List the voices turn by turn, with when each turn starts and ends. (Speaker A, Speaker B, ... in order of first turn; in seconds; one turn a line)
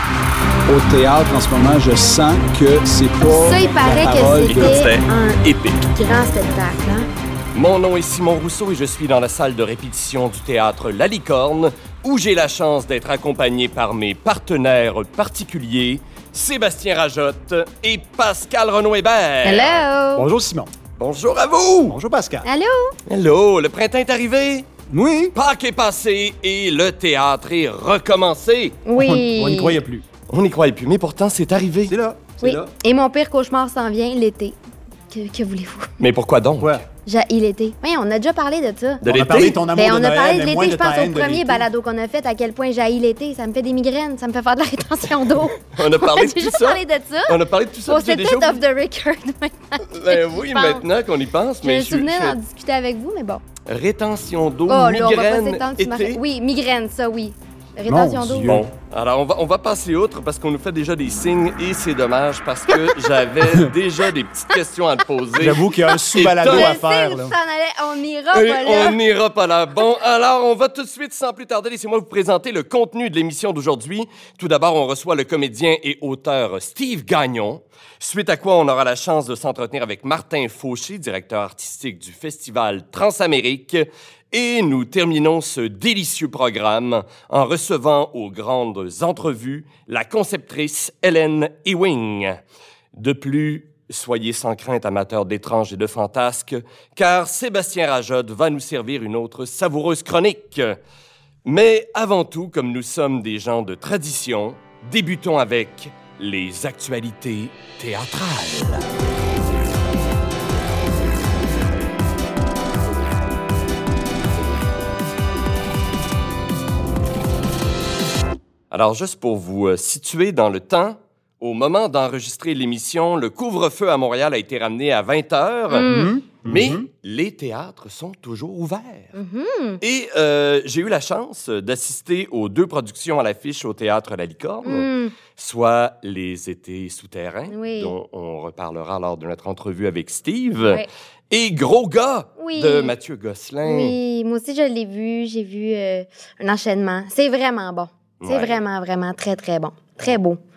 Speaker A: 0.7-4.8
Speaker B: 3.2-7.1
Speaker C: 4.5-5.9
Speaker C: 7.5-19.9
Speaker B: 19.4-20.3
Speaker A: 20.1-20.7
Speaker C: 21.0-22.0
Speaker A: 21.9-22.5
Speaker B: 22.4-22.9
Speaker C: 23.1-24.7
Speaker A: 24.9-25.3
Speaker C: 25.3-28.8
Speaker B: 28.8-29.8
Speaker A: 28.9-30.0
Speaker C: 30.3-31.9
Speaker A: 31.9-32.7
Speaker B: 32.4-34.5
Speaker B: 35.1-35.9
Speaker C: 36.0-36.8
Speaker A: 36.6-36.9
Speaker B: 37.0-39.0
Speaker C: 39.0-39.6
Speaker A: 39.0-41.7
Speaker B: 39.7-50.8
Speaker C: 45.7-48.6
Speaker C: 49.9-52.4
Speaker B: 51.6-53.4
Speaker C: 53.7-56.2
Speaker B: 54.7-58.5
Speaker A: 57.9-58.6
Speaker C: 58.4-66.7
Speaker A: 65.4-67.3
Speaker B: 66.4-69.0
Speaker C: 68.3-92.4
Speaker C: 92.9-100.8
Speaker C: 101.4-108.9
Speaker C: 118.7-125.9
Speaker B: 125.7-126.1
Speaker A: 125.8-126.8
Speaker C: 126.4-129.2
Speaker B: 129.1-129.8
Speaker C: 129.8-143.9
Speaker B: 134.6-135.1
Speaker B: 137.5-137.9
Speaker B: 142.4-142.9
Speaker B: 143.6-150.4
Speaker C: 148.2-148.6